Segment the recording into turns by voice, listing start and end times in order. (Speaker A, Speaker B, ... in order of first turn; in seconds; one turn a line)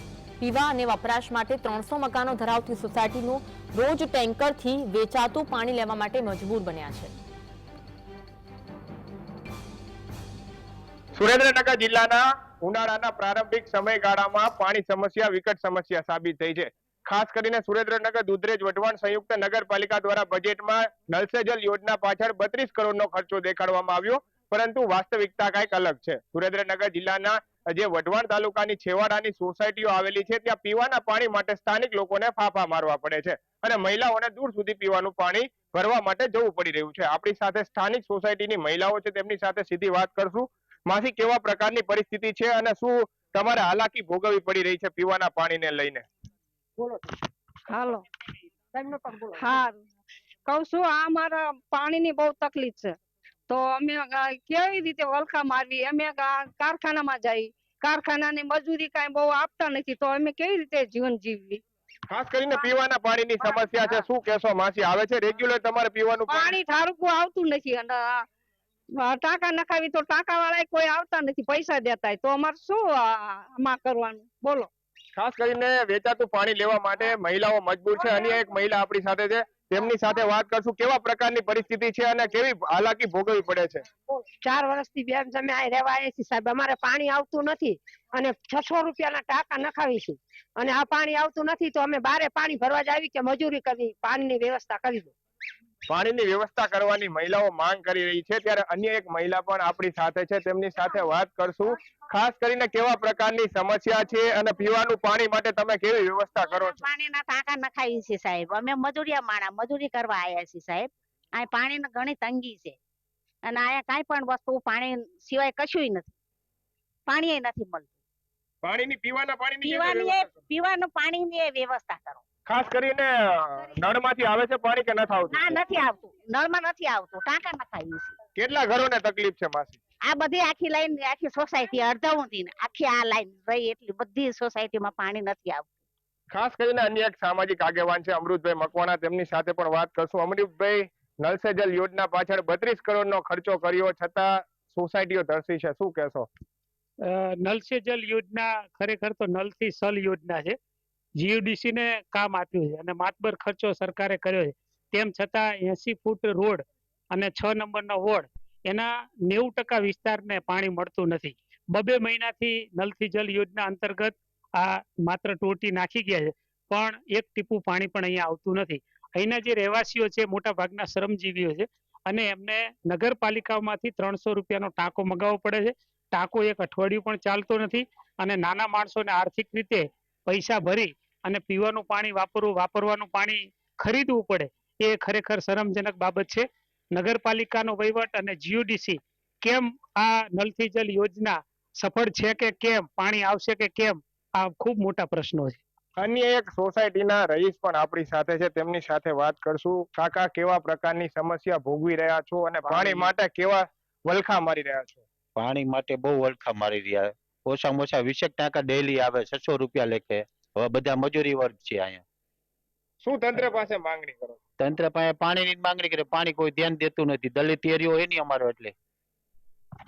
Speaker A: 0.4-7.1
Speaker B: 11.2-46.1
Speaker C: 46.8-47.1
Speaker D: 47.7-48.0
Speaker C: 48.7-49.6
Speaker D: 49.4-49.8
Speaker D: 50.5-53.0
Speaker D: 53.5-61.6
Speaker B: 62.1-66.6
Speaker D: 66.3-68.3
Speaker D: 69.0-74.7
Speaker B: 75.2-83.8
Speaker C: 84.1-95.1
Speaker B: 95.9-106.8
Speaker E: 106.4-112.8
Speaker E: 113.4-116.1
Speaker E: 117.1-117.9
Speaker B: 118.6-120.4
Speaker E: 119.6-122.2
Speaker B: 122.5-125.6
Speaker E: 125.3-128.2
Speaker B: 128.4-129.8
Speaker E: 130.1-135.7
Speaker B: 136.3-146.3
Speaker F: 147.1-150.6
Speaker F: 151.2-195.6
Speaker B: 196.0-205.0
Speaker G: 202.7-203.1
Speaker G: 205.4-212.0
Speaker B: 213.0-214.4
Speaker G: 214.6-218.8